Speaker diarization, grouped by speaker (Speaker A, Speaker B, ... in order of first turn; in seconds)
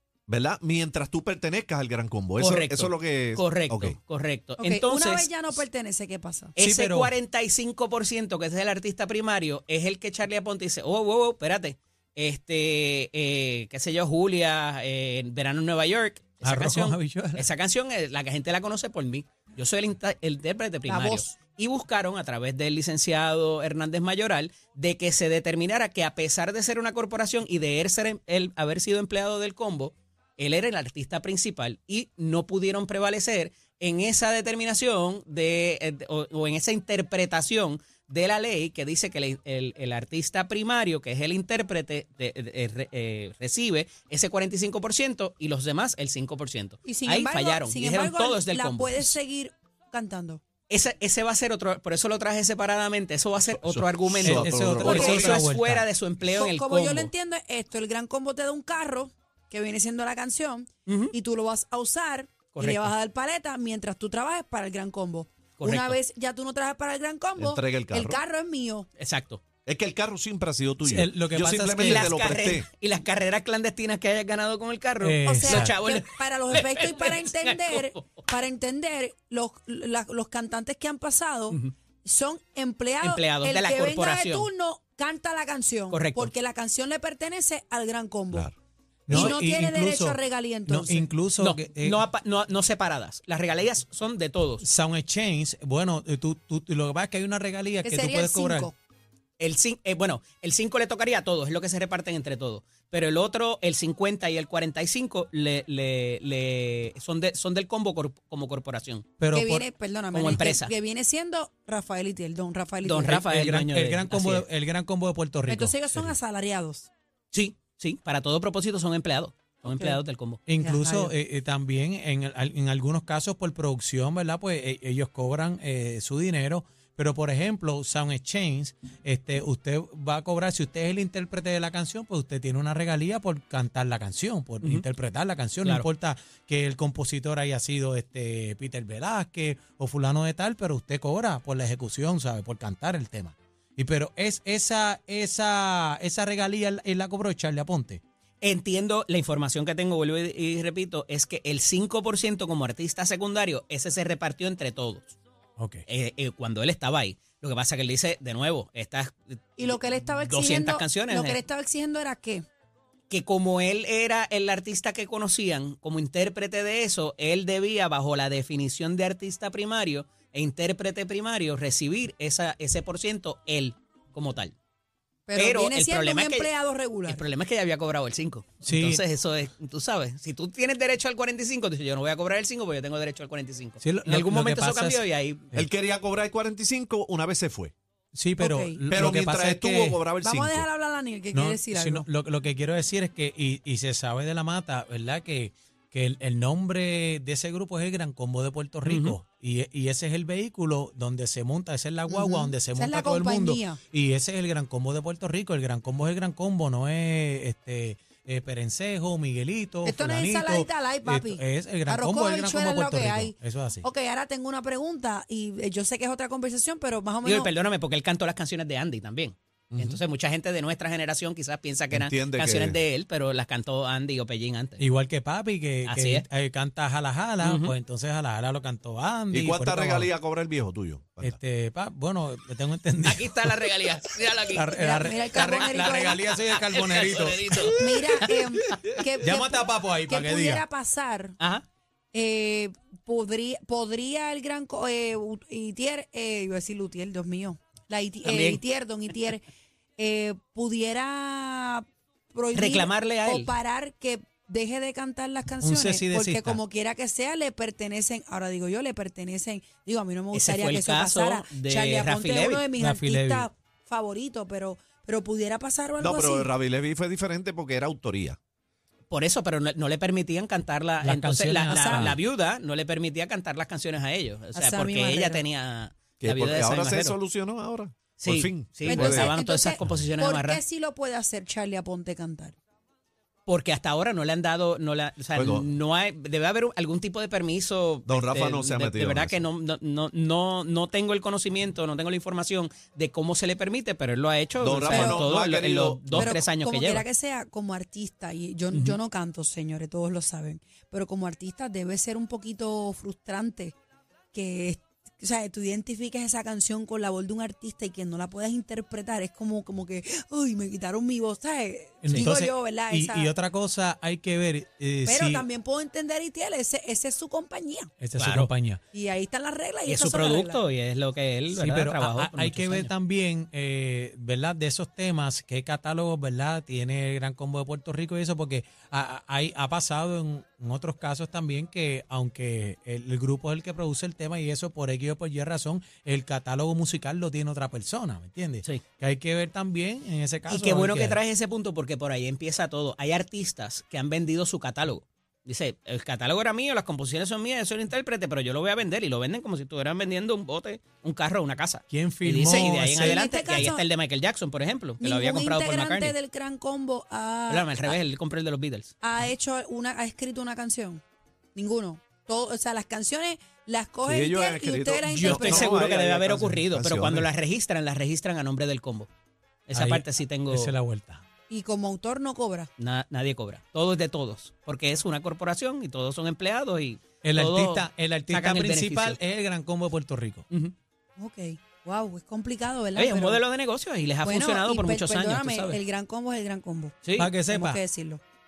Speaker A: 0.3-4.0, 53.5-55.4, 67.4-68.2, 69.7-72.7, 185.5-187.7, 188.9-190.7, 219.7-220.0, 221.9-222.8, 229.3-231.4, 266.0-268.4, 276.2-279.4, 285.3-285.7, 288.1-289.5, 294.6-296.3, 364.1-367.3
Speaker B: 2.4-5.3, 6.6-49.1, 50.7-57.1, 60.9-61.1, 62.5-62.9, 65.6-66.0, 69.0-69.4, 71.8-78.0, 83.0-84.5, 85.9-86.3, 89.1-89.4, 91.4-94.6, 99.4-109.1, 110.1-110.7, 112.8-114.5, 117.3-120.4, 148.4-155.2, 155.9-161.4, 163.1-174.5, 175.3-176.5, 177.1-185.5, 198.8-199.2, 217.2-224.8, 225.8-226.2, 227.4-227.7, 233.0-239.0, 241.4-241.6, 248.2-248.6, 252.5-253.5, 260.3-262.7, 269.1-277.1, 278.2-280.6, 283.5-297.0, 318.2-318.5, 319.9-322.9, 340.5-356.1, 357.5-358.9, 365.1-369.1, 369.7-370.7, 372.8-379.2, 382.9-385.8, 387.0-387.3
Speaker C: 4.6-6.5, 20.9-21.3, 46.8-50.4, 54.8-55.2, 56.4-68.9, 75.2-88.5, 89.1-91.1, 97.8-98.7, 109.3-113.2, 115.5-116.9, 119.7-120.0, 120.6-121.1, 159.6-162.4, 175.3-177.2, 188.4-188.8, 190.2-192.1, 202.1-203.8, 209.8-217.5, 234.7-236.2, 237.6-241.4, 242.1-249.4, 250.0-266.5, 271.6-272.2, 274.5-275.4, 278.9-282.5, 294.9-295.3, 296.1-303.7, 304.3-313.3, 315.0-317.9, 318.9-320.6, 353.0-353.8, 355.0-357.9, 359.0-361.0, 361.5-365.9, 371.5-372.7, 381.2-383.4, 384.2-388.2
Speaker D: 6.6-7.1, 16.4-17.5, 54.2-55.8, 70.8-72.2, 75.0-75.7, 89.1-92.0, 94.6-98.7, 109.2-109.7, 113.2-116.1, 120.5-148.0, 155.6-155.8, 178.6-179.0, 183.8-185.0, 188.1-190.0, 191.3-213.8, 224.8-230.1, 231.2-233.6, 234.5-238.2, 239.2-240.6, 255.6-256.6, 262.8-263.5, 271.0-272.2, 312.0-315.4, 318.0-318.8, 321.5-341.2, 351.9-353.2, 369.7-371.2, 377.2-380.4, 387.2-387.8